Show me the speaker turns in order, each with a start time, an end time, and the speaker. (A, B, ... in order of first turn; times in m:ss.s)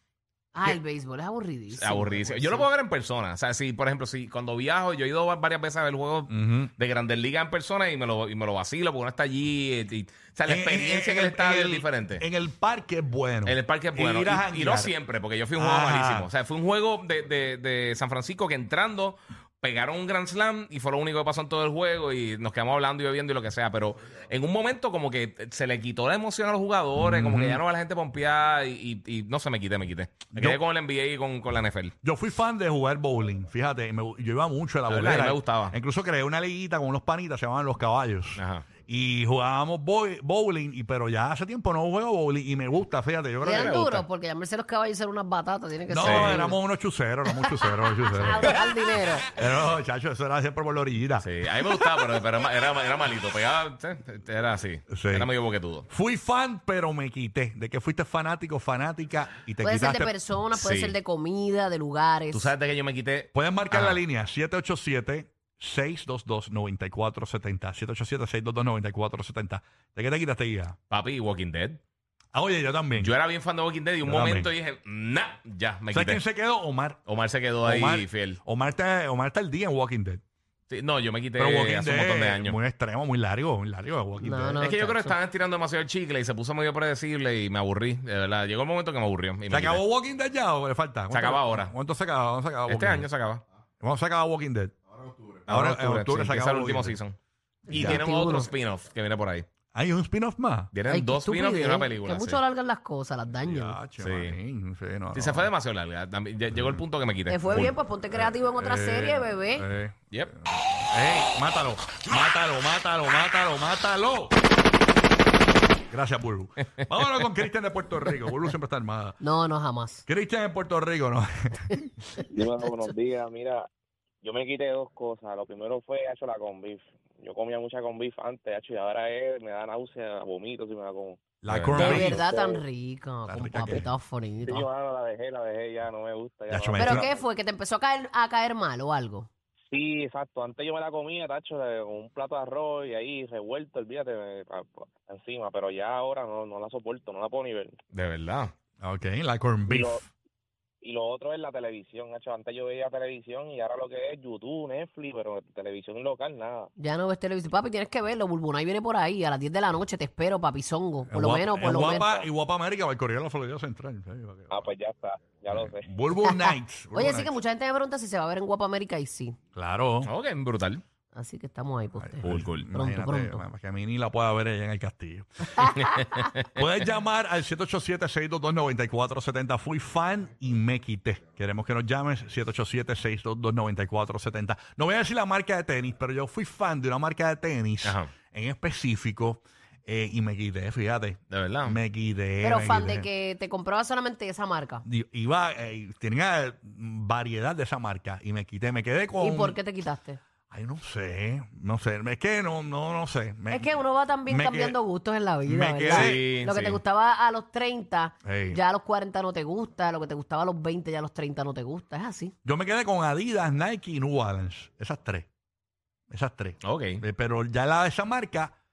0:00.5-0:02.7 A
0:01.8-0:12.2 B
0:06.3-0:06.7 C
0:10.5-0:14.9 C
0:13.4-0:31.9 B
0:15.5-0:16.3 C
0:27.0-0:27.6 C
0:30.3-0:30.6 C
0:32.0-0:43.9 C
0:34.9-0:35.7 B
0:38.4-0:38.7 B
0:43.4-0:46.6 A
0:43.5-0:44.0 B
0:45.9-0:48.6 C
0:46.0-0:46.4 B
0:48.1-0:49.3 A
0:49.3-0:51.3 C
0:51.2-0:55.8 B
0:54.9-0:55.3 C
0:55.9-1:00.1 C
0:59.6-1:02.5 A
1:00.5-1:01.0 B
1:02.3-1:04.0 B
1:03.3-1:10.8 C
1:10.9-1:11.8 B
1:12.3-1:13.1 C
1:13.0-1:16.2 B
1:14.0-1:14.5 C
1:15.9-1:17.0 C
1:17.1-1:18.4 B
1:17.6-1:20.2 C
1:20.7-1:22.6 B
1:21.3-1:24.6 C
1:24.2-1:25.2 A
1:24.6-1:29.8 B
1:29.5-1:33.1 C
1:31.1-1:31.7 B
1:32.7-1:33.4 B
1:33.8-1:34.7 C
1:35.5-1:37.0 C
1:35.5-1:37.2 B
1:37.7-1:38.5 A
1:37.7-1:38.0 C
1:37.7-1:39.4 B
1:39.7-1:40.7 C
1:40.7-1:42.4 B
1:40.9-1:43.8 A
1:43.3-1:45.5 C
1:44.0-1:44.4 B
1:45.1-1:47.7 B
1:46.5-1:46.8 C
1:47.3-1:49.7 A
1:48.1-1:54.3 C
1:55.9-1:59.2 C
1:59.2-2:00.0 A
2:00.0-2:01.9 C
2:02.3-2:03.7 D
2:02.6-2:02.9 A
2:04.2-2:11.2 D
2:11.4-2:12.2 C
2:11.5-2:12.0 B
2:11.8-2:14.7 A
2:11.8-2:12.6 D
2:13.2-2:13.9 C
2:14.4-2:17.2 D
2:16.5-2:17.1 C
2:16.8-2:19.3 A
2:19.7-2:27.8 D
2:27.9-2:28.5 B
2:28.8-2:30.0 C
2:30.8-2:36.7 D
2:36.8-2:42.2 A
2:41.1-2:44.6 C
2:44.5-2:45.9 D
2:45.5-2:47.3 C
2:46.2-2:49.4 A
2:49.5-2:50.1 C
2:50.0-2:50.8 B
2:51.1-2:53.4 A
2:52.0-2:55.8 C
2:52.2-2:52.7 B
2:55.6-2:56.1 A
2:55.8-2:56.5 B
2:56.5-3:13.1 C
3:07.8-3:08.1 B
3:11.3-3:11.8 B
3:12.4-3:14.8 A
3:14.8-3:19.6 C
3:19.2-3:20.2 A
3:20.5-3:23.7 C
3:23.5-3:32.3 A
3:24.2-3:24.8 C
3:25.4-3:26.2 C
3:25.9-3:26.8 B
3:28.2-3:28.6 C
3:32.4-3:35.3 C
3:36.1-3:38.5 C
3:36.6-3:37.0 B